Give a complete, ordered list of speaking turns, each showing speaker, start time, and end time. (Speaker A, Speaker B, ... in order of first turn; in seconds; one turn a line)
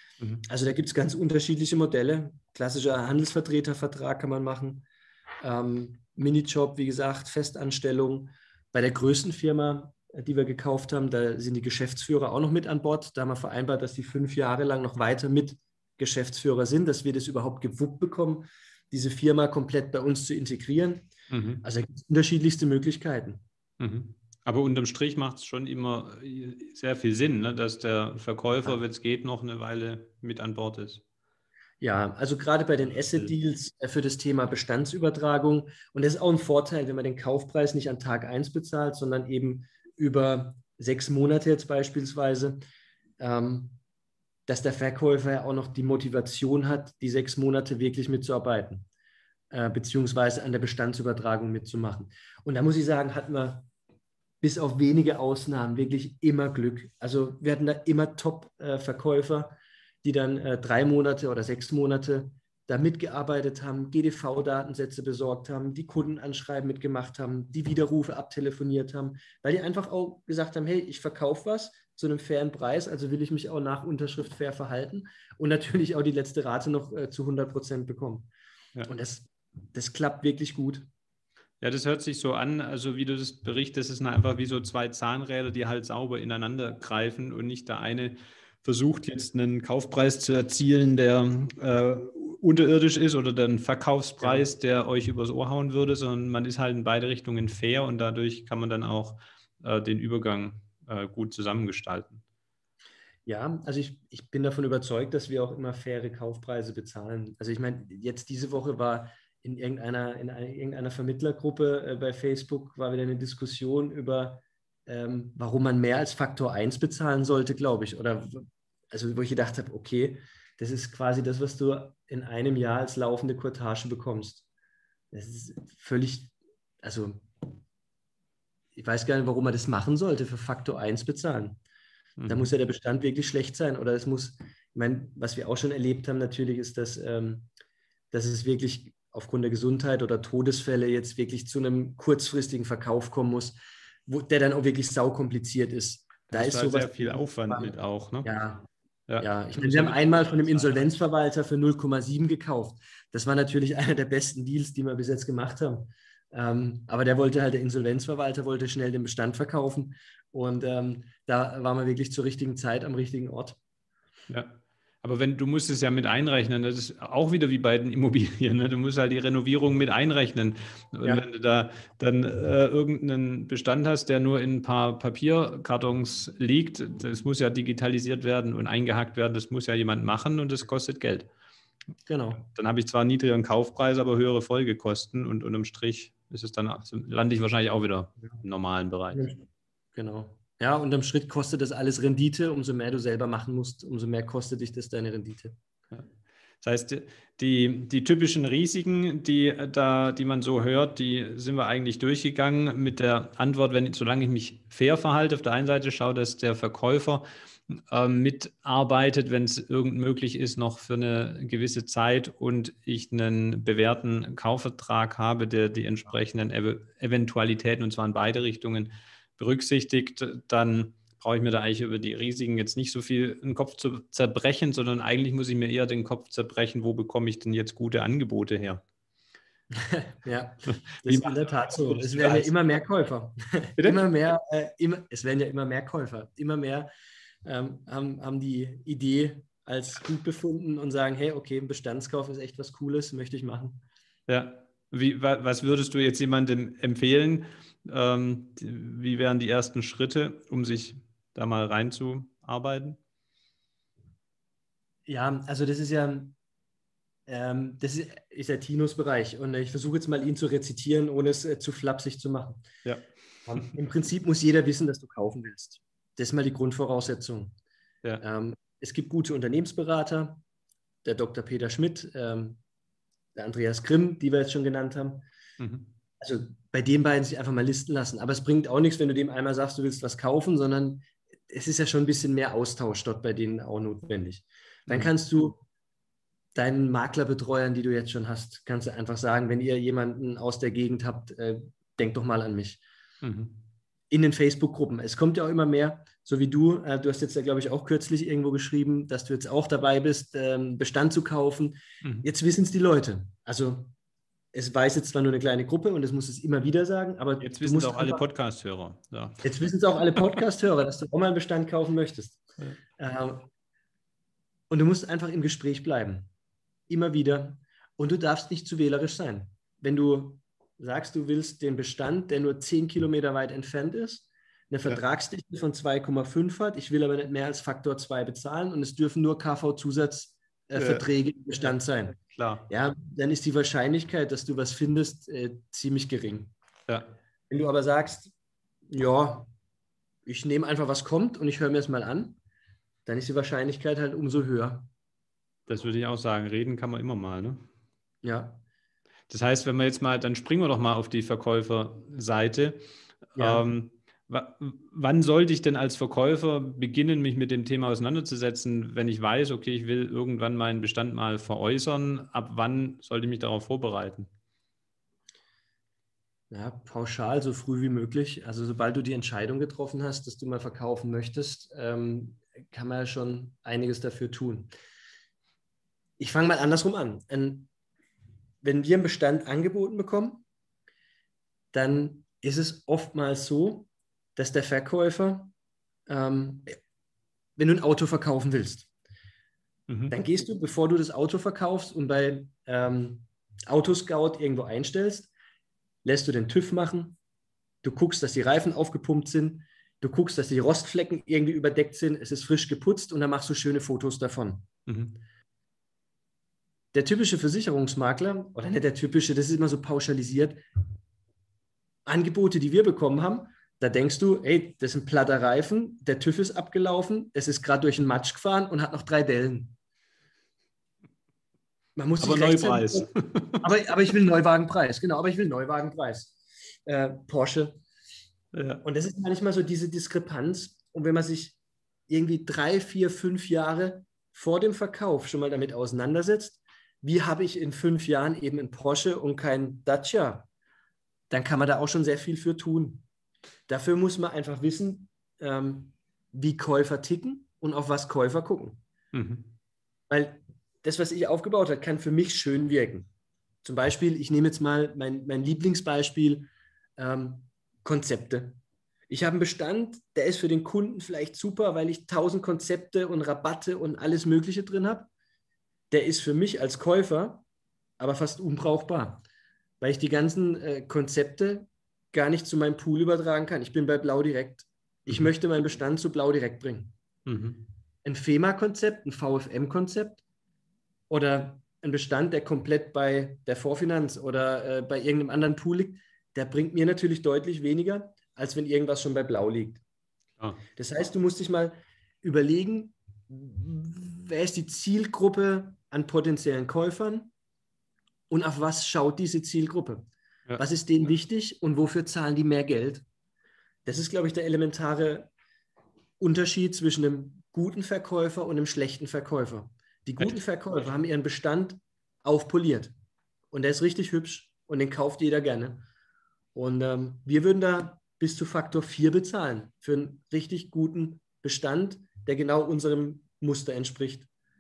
Speaker A: 0.4-4.8
Speaker A: 5.4-21.1
Speaker B: 21.3-21.6
Speaker A: 21.6-23.4
Speaker B: 23.8-31.0
Speaker A: 31.8-42.6
Speaker B: 32.8-33.3
Speaker A: 43.2-43.8
Speaker A: 44.5-48.9
Speaker A: 49.5-53.7
Speaker A: 54.4-78.3
Speaker A: 78.8-80.9
Speaker B: 81.6-102.2
Speaker A: 94.2-94.5
Speaker A: 103.2-124.4
Speaker A: 125.1-127.6
Speaker A: 128.7-131.6
Speaker B: 132.2-132.5
Speaker A: 132.3-137.5
Speaker A: 138.1-147.7
Speaker B: 146.3-148.3
Speaker A: 148.2-148.7
Speaker B: 149.1-150.9
Speaker A: 149.2-163.6
Speaker B: 164.3-181.3
Speaker A: 182.1-182.4
Speaker B: 182.4-189.3
Speaker A: 189.1-189.4
Speaker A: 189.9-195.6
Speaker B: 196.6-228.8
Speaker A: 229.7-236.9
Speaker B: 230.7-232.5
Speaker B: 233.8-234.1
Speaker A: 237.4-243.8
Speaker B: 244.3-253.0
Speaker A: 255.1-256.4
Speaker A: 257.3-262.6
Speaker B: 262.8-263.7
Speaker A: 263.4-267.5
Speaker A: 268.2-270.4
Speaker A: 271.0-272.6
Speaker A: 273.3-275.2
Speaker B: 275.6-275.9
Speaker A: 276.2-285.6
Speaker B: 284.9-285.1
Speaker A: 286.5-292.8
Speaker B: 293.2-293.6
Speaker A: 294.1-303.9
Speaker B: 302.0-302.3
Speaker A: 304.5-308.2
Speaker B: 307.4-309.4
Speaker A: 309.4-312.4
Speaker A: 313.0-313.5
Speaker A: 314.7-316.3
Speaker A: 316.9-332.2
Speaker B: 330.7-332.7
Speaker A: 332.7-336.5
Speaker A: 337.5-338.3
Speaker A: 338.9-339.5
Speaker A: 340.2-342.4
Speaker A: 343.1-344.9
Speaker B: 345.7-347.6
Speaker A: 348.2-348.6
Speaker B: 349.3-364.3
Speaker A: 353.4-353.7
Speaker A: 366.5-374.7
Speaker A: 376.2-377.7
Speaker A: 378.6-380.4
Speaker A: 381.7-385.5
Speaker A: 386.1-386.8
Speaker A: 387.6-388.9
Speaker B: 389.9-390.1
Speaker A: 390.1-395.3
Speaker A: 396.0-397.2
Speaker A: 397.8-404.7
Speaker B: 404.9-405.2
Speaker A: 406.9-410.6
Speaker A: 412.1-419.7
Speaker A: 421.9-423.1
Speaker B: 422.2-423.6
Speaker A: 423.6-426.3
Speaker A: 426.9-427.8
Speaker B: 428.5-428.8
Speaker A: 428.8-431.6
Speaker A: 432.1-440.5
Speaker A: 441.3-443.0
Speaker A: 443.7-448.8
Speaker B: 449.1-449.5
Speaker A: 450.1-453.1
Speaker A: 453.6-458.6
Speaker A: 459.1-465.1
Speaker A: 465.9-467.4
Speaker A: 468.0-469.2
Speaker A: 469.8-476.9
Speaker B: 477.2-477.6
Speaker A: 478.0-480.2
Speaker A: 481.1-489.8
Speaker A: 490.8-497.3
Speaker A: 498.3-503.0
Speaker A: 503.8-505.3
Speaker A: 506.2-512.9
Speaker A: 513.5-515.8
Speaker A: 516.5-524.3